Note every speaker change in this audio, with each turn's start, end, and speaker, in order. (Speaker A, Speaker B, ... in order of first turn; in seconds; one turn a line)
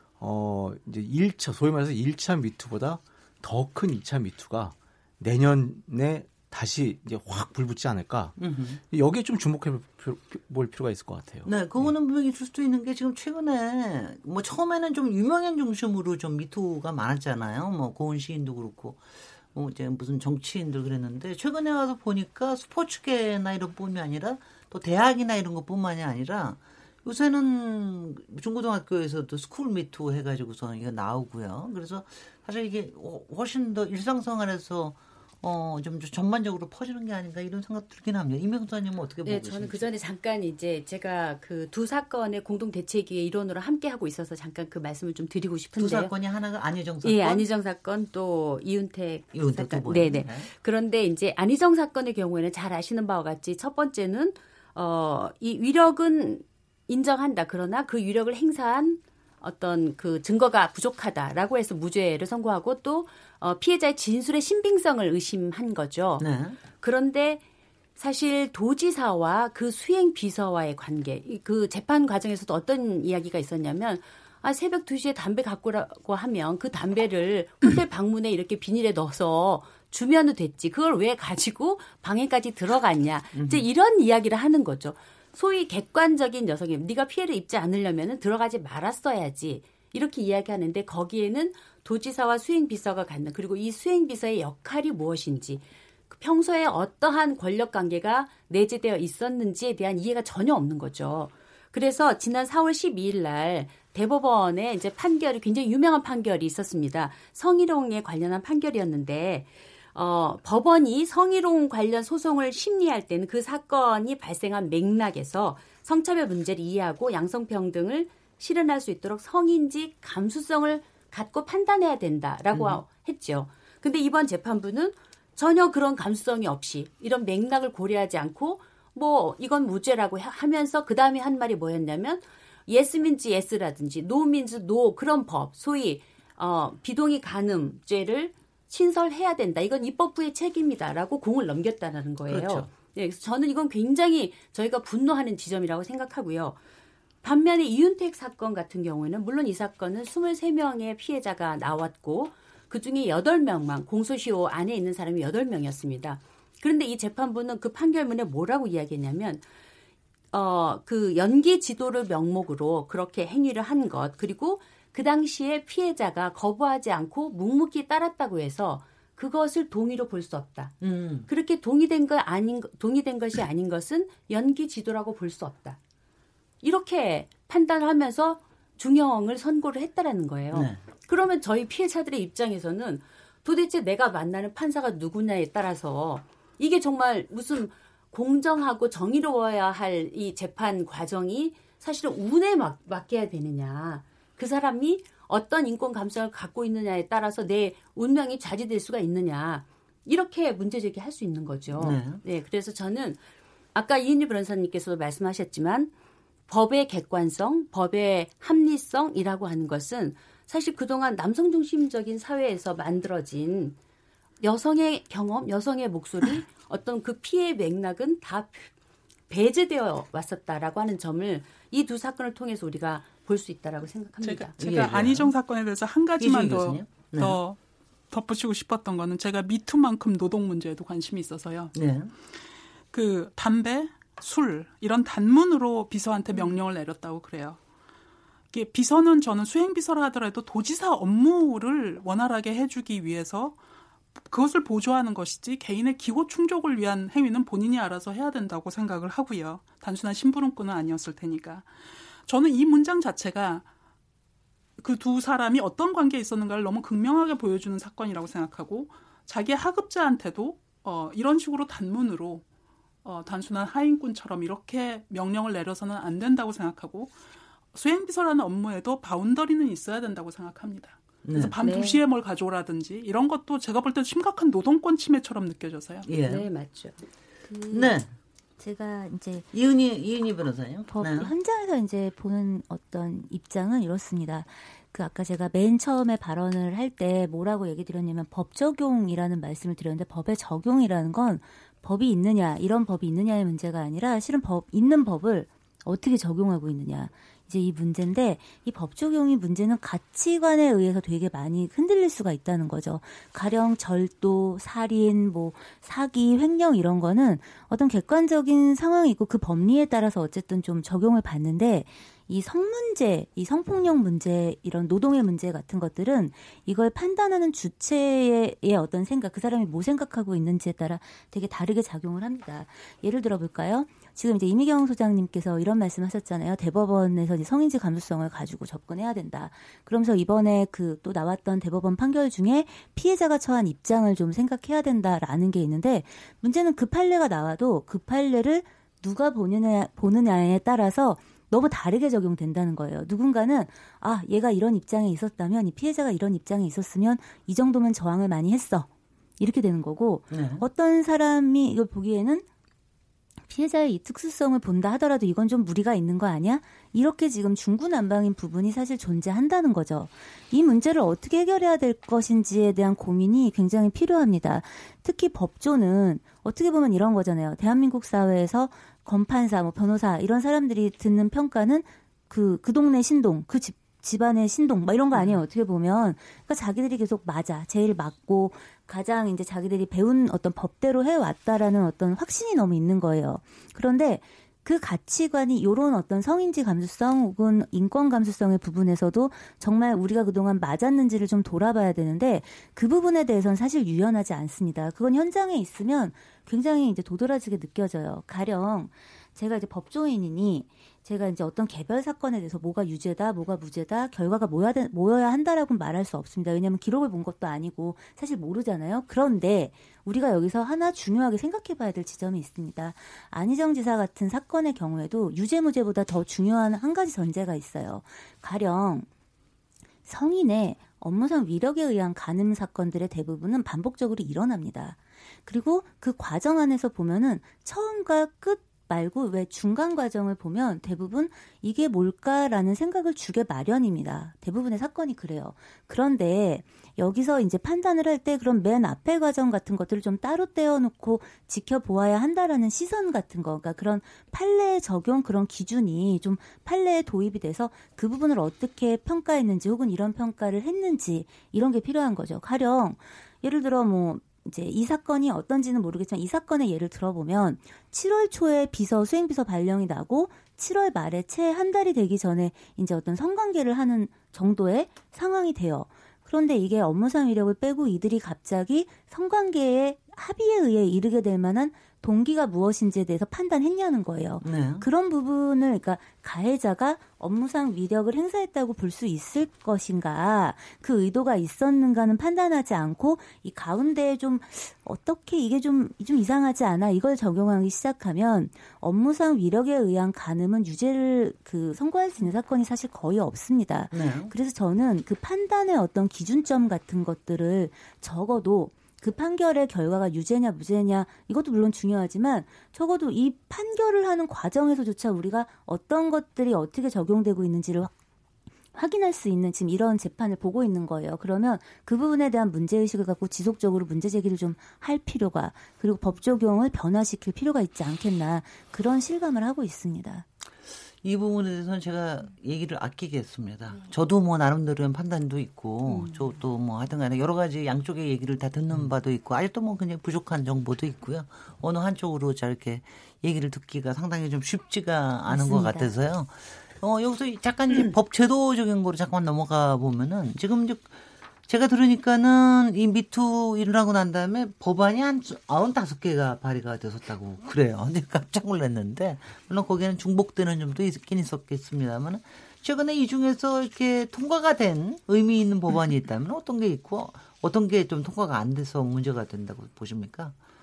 Speaker A: 0.2-8.4
Speaker B: 8.4-8.8
Speaker A: 8.9-11.9
Speaker B: 11.4-39.9
Speaker C: 39.2-46.1
Speaker B: 45.8-47.5
Speaker C: 47.0-67.4
Speaker B: 49.3-50.5
Speaker B: 66.2-66.6
Speaker C: 68.0-146.6
Speaker B: 83.3-83.6
Speaker B: 122.5-122.8
Speaker B: 142.3-142.7
Speaker C: 147.2-159.4
Speaker C: 160.3-170.8
Speaker B: 170.8-171.3
Speaker C: 171.3-175.8
Speaker C: 176.6-203.2
Speaker B: 180.5-180.8
Speaker B: 201.7-202.2
Speaker C: 203.7-205.9
Speaker C: 206.5-213.8
Speaker C: 214.4-218.7
Speaker C: 219.3-224.5
Speaker D: 224.2-227.6
Speaker B: 224.6-225.3
Speaker B: 226.2-227.4
Speaker D: 228.1-231.7
Speaker B: 231.7-232.1
Speaker D: 232.9-237.6
Speaker D: 238.5-243.6
Speaker D: 244.3-251.7
Speaker D: 252.2-253.7
Speaker D: 254.8-262.4
Speaker D: 263.0-267.1
Speaker D: 267.7-276.1
Speaker B: 271.2-271.6
Speaker C: 271.6-272.0
Speaker B: 276.0-276.5
Speaker C: 276.2-276.9
Speaker E: 277.4-278.0
Speaker B: 277.7-278.1
Speaker E: 278.6-279.5
Speaker B: 279.5-281.3
Speaker E: 280.9-348.9
Speaker E: 349.4-352.4
Speaker B: 350.3-350.6
Speaker E: 353.5-419.1
Speaker B: 375.1-375.4
Speaker E: 420.1-507.9
Speaker B: 474.4-474.9
Speaker B: 493.9-494.3
Speaker E: 508.7-520.2
Speaker B: 521.0-541.0
Speaker E: 525.9-526.2
Speaker E: 535.3-535.9
Speaker B: 541.5-560.4